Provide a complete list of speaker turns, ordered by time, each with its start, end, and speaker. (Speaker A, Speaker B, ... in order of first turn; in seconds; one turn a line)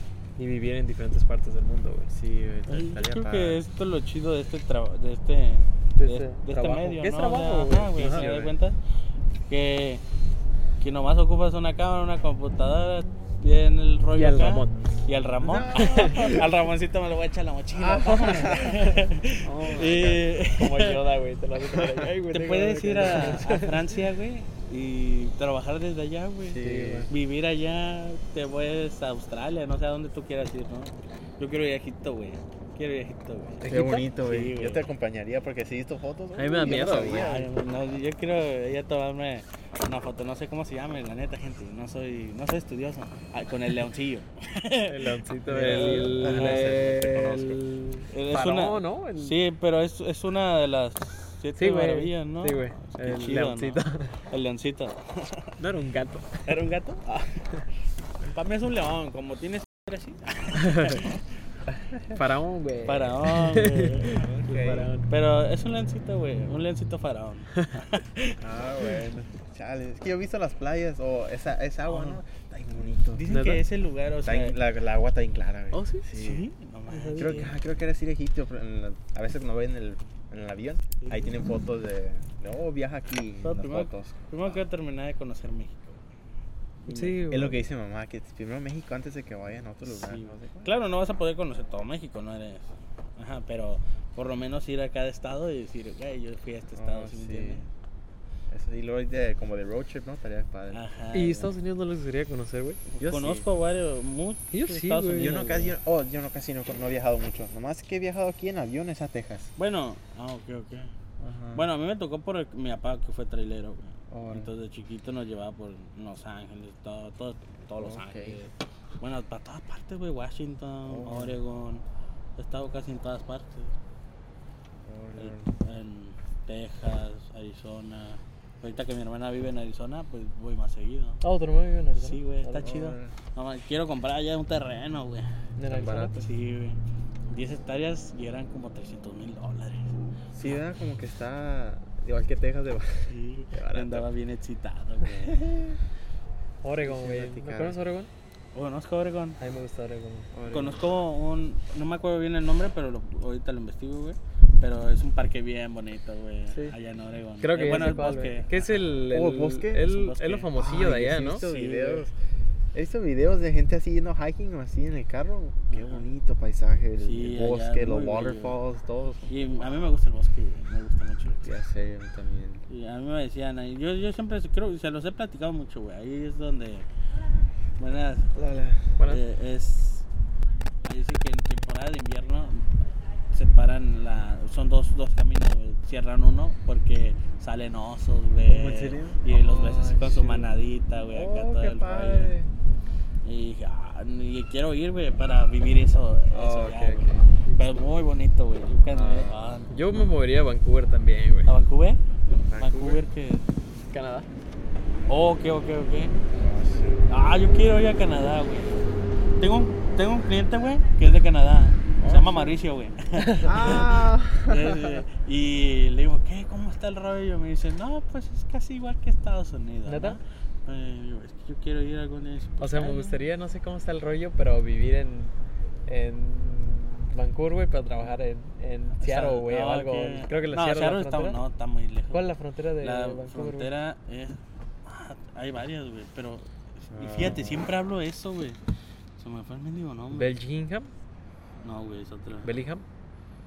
Speaker A: 0.4-2.1
Speaker B: 2.1-3.6
Speaker C: 2.7-8.8
Speaker A: 6.0-8.3
Speaker B: 8.0-8.6
Speaker C: 9.5-10.0
Speaker C: 10.8-21.0
Speaker A: 14.1-14.8
Speaker B: 15.4-16.5
Speaker A: 15.7-16.4
Speaker B: 17.7-20.3
Speaker A: 18.4-18.7
Speaker A: 19.4-23.8
Speaker B: 21.7-22.1
Speaker C: 22.3-34.9
Speaker B: 23.0-23.4
Speaker B: 26.5-27.1
Speaker A: 26.6-27.1
Speaker A: 33.6-34.0
Speaker B: 33.6-37.5
Speaker A: 36.4-37.4
Speaker C: 36.6-46.8
Speaker A: 44.9-49.3
Speaker B: 45.5-47.6
Speaker C: 48.1-55.5
Speaker A: 51.5-54.2
Speaker A: 55.6-56.5
Speaker C: 56.5-57.4
Speaker C: 58.2-61.2
Speaker A: 60.6-61.0
Speaker A: 62.1-65.1
Speaker C: 62.9-68.3
Speaker B: 64.2-64.9
Speaker B: 68.4-73.2
Speaker C: 71.8-72.2
Speaker C: 73.1-74.6
Speaker A: 73.3-73.6
Speaker B: 74.2-76.5
Speaker A: 75.7-76.1
Speaker C: 76.1-77.5
Speaker A: 76.9-77.5
Speaker B: 77.1-84.6
Speaker C: 81.0-81.3
Speaker C: 83.4-86.1
Speaker C: 86.8-87.4
Speaker A: 86.9-87.6
Speaker B: 87.3-90.7
Speaker C: 89.9-97.7
Speaker B: 96.7-97.7
Speaker B: 98.5-100.8
Speaker C: 100.7-101.5
Speaker A: 101.1-102.8
Speaker C: 102.9-105.7
Speaker B: 103.0-103.5
Speaker A: 104.5-105.4
Speaker B: 105.2-109.5
Speaker C: 109.6-110.9
Speaker B: 111.2-111.7
Speaker C: 111.5-121.8
Speaker B: 114.1-114.5
Speaker B: 117.8-118.4
Speaker B: 120.9-121.4
Speaker C: 122.4-123.7
Speaker B: 124.8-125.5
Speaker C: 125.2-131.2
Speaker A: 131.2-132.7
Speaker C: 132.0-135.3
Speaker B: 132.6-133.1
Speaker A: 135.6-136.2
Speaker B: 135.7-136.3
Speaker C: 136.2-136.8
Speaker C: 137.3-140.0
Speaker B: 140.3-144.1
Speaker C: 143.1-145.5
Speaker B: 145.2-145.8
Speaker A: 146.6-148.1
Speaker B: 146.8-147.8
Speaker C: 148.5-149.4
Speaker A: 149.4-150.3
Speaker B: 150.3-150.8
Speaker C: 150.5-158.8
Speaker A: 157.4-161.4
Speaker B: 159.1-159.9
Speaker C: 159.8-160.6
Speaker B: 160.6-162.1
Speaker C: 161.1-162.1
Speaker B: 162.7-169.8
Speaker C: 165.7-166.1
Speaker C: 167.0-168.6
Speaker C: 169.3-171.5
Speaker B: 171.4-172.6
Speaker C: 172.7-176.9
Speaker C: 177.8-178.3
Speaker B: 178.3-179.0
Speaker C: 179.1-180.1
Speaker C: 180.8-182.8
Speaker C: 183.3-192.3
Speaker B: 188.5-190.5
Speaker B: 191.1-192.5
Speaker C: 193.2-199.7
Speaker B: 196.3-197.3
Speaker B: 198.9-199.4
Speaker A: 199.7-201.5
Speaker C: 201.4-202.0
Speaker B: 202.3-203.0
Speaker C: 202.6-203.5
Speaker A: 203.9-204.3
Speaker C: 205.1-206.2
Speaker B: 206.3-207.1
Speaker C: 207.1-208.8
Speaker C: 209.4-223.1
Speaker B: 212.0-212.6
Speaker A: 213.2-213.6
Speaker B: 213.4-215.0
Speaker A: 219.8-220.2
Speaker A: 222.6-225.3
Speaker A: 225.8-231.4
Speaker C: 229.0-238.6
Speaker A: 232.1-233.7
Speaker B: 236.9-237.7
Speaker C: 239.2-240.3
Speaker A: 240.1-240.9
Speaker C: 241.6-242.5
Speaker A: 242.4-242.8